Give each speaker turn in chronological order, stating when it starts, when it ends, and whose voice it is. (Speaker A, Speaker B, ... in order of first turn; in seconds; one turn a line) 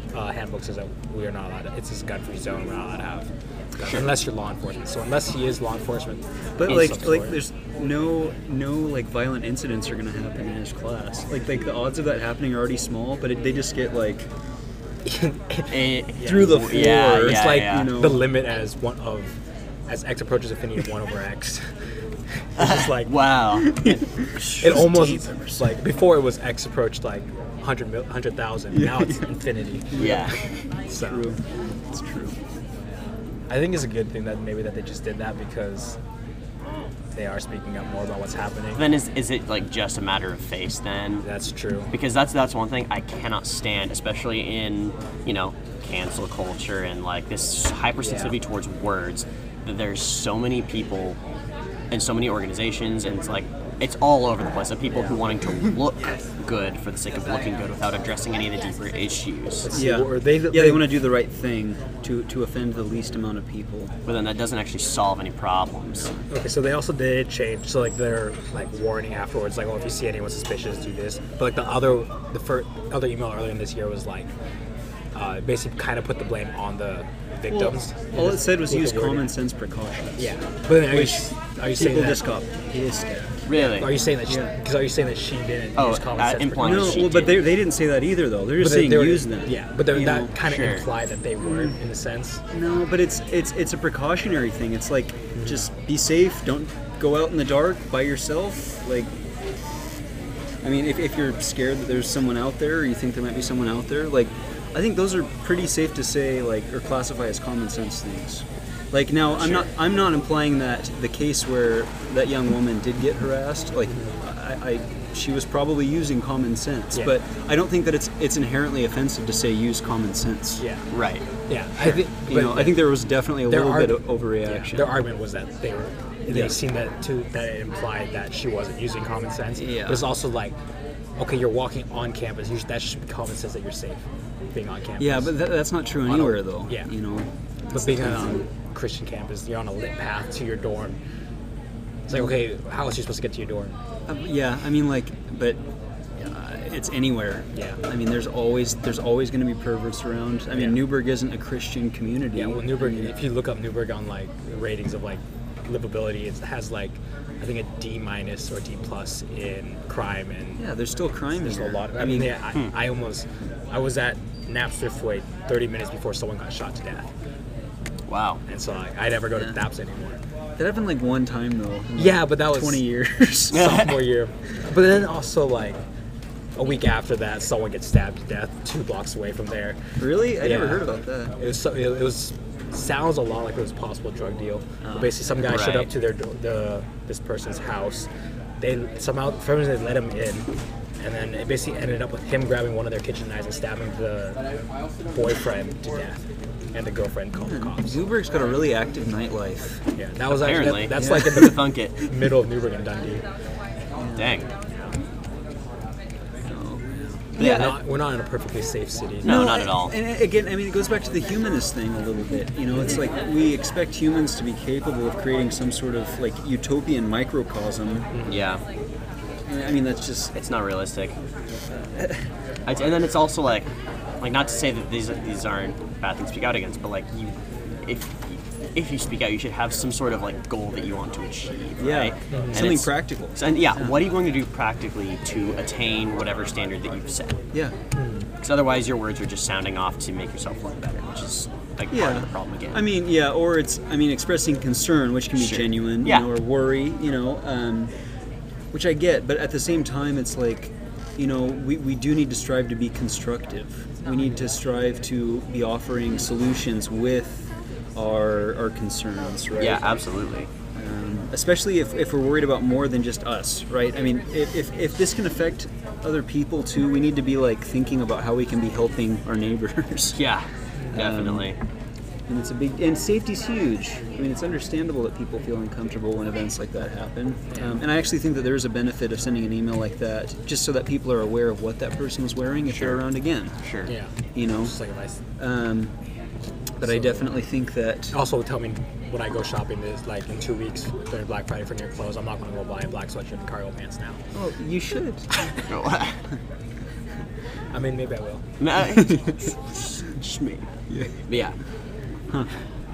Speaker A: 0.1-3.3
Speaker A: 3.8-7.4
Speaker B: 6.6-14.3
Speaker A: 15.1-16.6
Speaker C: 15.7-18.0
Speaker B: 16.2-18.3
Speaker A: 17.2-19.4
Speaker A: 19.9-21.7
Speaker A: 22.6-23.1
Speaker C: 22.6-25.0
Speaker B: 23.7-25.6
Speaker A: 24.5-30.3
Speaker B: 28.7-29.2
Speaker B: 29.9-30.3
Speaker C: 29.9-30.4
Speaker A: 30.9-31.2
Speaker B: 30.9-32.4
Speaker A: 33.5-36.0
Speaker A: 37.1-38.8
Speaker C: 38.8-41.2
Speaker A: 41.2-41.9
Speaker C: 41.9-51.2
Speaker A: 48.0-48.4
Speaker C: 51.9-59.7
Speaker A: 54.9-55.2
Speaker A: 59.6-60.9
Speaker B: 59.7-63.9
Speaker C: 64.1-66.1
Speaker B: 65.9-66.2
Speaker A: 66.3-74.3
Speaker A: 75.1-79.3
Speaker B: 77.5-83.3
Speaker A: 80.2-82.3
Speaker C: 83.5-84.0
Speaker A: 83.5-87.1
Speaker B: 84.3-84.5
Speaker C: 85.8-87.5
Speaker B: 86.6-90.3
Speaker A: 88.6-92.4
Speaker C: 90.4-90.9
Speaker B: 91.4-91.7
Speaker B: 92.5-99.1
Speaker A: 95.3-95.7
Speaker B: 100.6-120.6
Speaker A: 120.6-120.9
Speaker C: 120.9-121.2
Speaker A: 121.5-130.6
Speaker B: 121.8-125.0
Speaker B: 126.3-126.6
Speaker B: 129.6-130.0
Speaker A: 131.2-135.4
Speaker B: 135.0-138.4
Speaker A: 136.1-136.9
Speaker A: 137.7-141.0
Speaker A: 142.1-143.8
Speaker B: 144.1-145.6
Speaker B: 146.2-153.1
Speaker A: 147.5-147.8
Speaker A: 150.5-150.8
Speaker A: 152.3-160.7
Speaker B: 160.6-162.4
Speaker A: 161.4-167.1
Speaker C: 168.1-168.4
Speaker A: 168.5-170.2
Speaker B: 170.6-173.7
Speaker A: 172.0-172.9
Speaker A: 173.5-175.8
Speaker C: 173.5-174.0
Speaker A: 176.6-188.1
Speaker B: 180.0-181.3
Speaker B: 184.8-185.1
Speaker C: 185.4-185.9
Speaker A: 188.6-190.5
Speaker A: 191.0-194.4
Speaker A: 195.1-196.2
Speaker A: 196.7-198.0
Speaker B: 197.4-199.8
Speaker A: 200.0-203.2
Speaker C: 200.3-202.0
Speaker B: 200.9-201.5
Speaker B: 204.0-204.4
Speaker C: 204.2-204.5
Speaker B: 206.4-207.8
Speaker A: 207.4-209.4
Speaker C: 207.4-207.7
Speaker C: 209.2-210.0
Speaker B: 209.2-218.1
Speaker A: 218.1-218.4
Speaker C: 218.2-218.6
Speaker B: 219.5-220.3
Speaker C: 220.3-221.2
Speaker B: 222.0-222.2
Speaker C: 222.7-223.7
Speaker C: 224.2-237.4
Speaker B: 231.8-234.0
Speaker A: 232.3-232.6
Speaker A: 237.9-238.3
Speaker C: 238.4-242.9
Speaker B: 241.9-247.9
Speaker C: 245.4-246.3
Speaker B: 248.7-259.9
Speaker C: 259.6-260.5
Speaker B: 260.8-270.2
Speaker C: 270.1-271.6
Speaker B: 270.9-271.5
Speaker B: 272.3-283.5
Speaker C: 282.7-283.0
Speaker C: 283.6-283.9
Speaker A: 283.9-285.2
Speaker B: 284.4-284.7
Speaker B: 285.4-285.9
Speaker A: 286.8-287.2
Speaker B: 286.8-288.1
Speaker A: 288.1-294.2
Speaker B: 294.3-295.3
Speaker C: 295.7-296.2
Speaker A: 297.7-298.4
Speaker C: 298.6-300.7
Speaker C: 301.3-301.6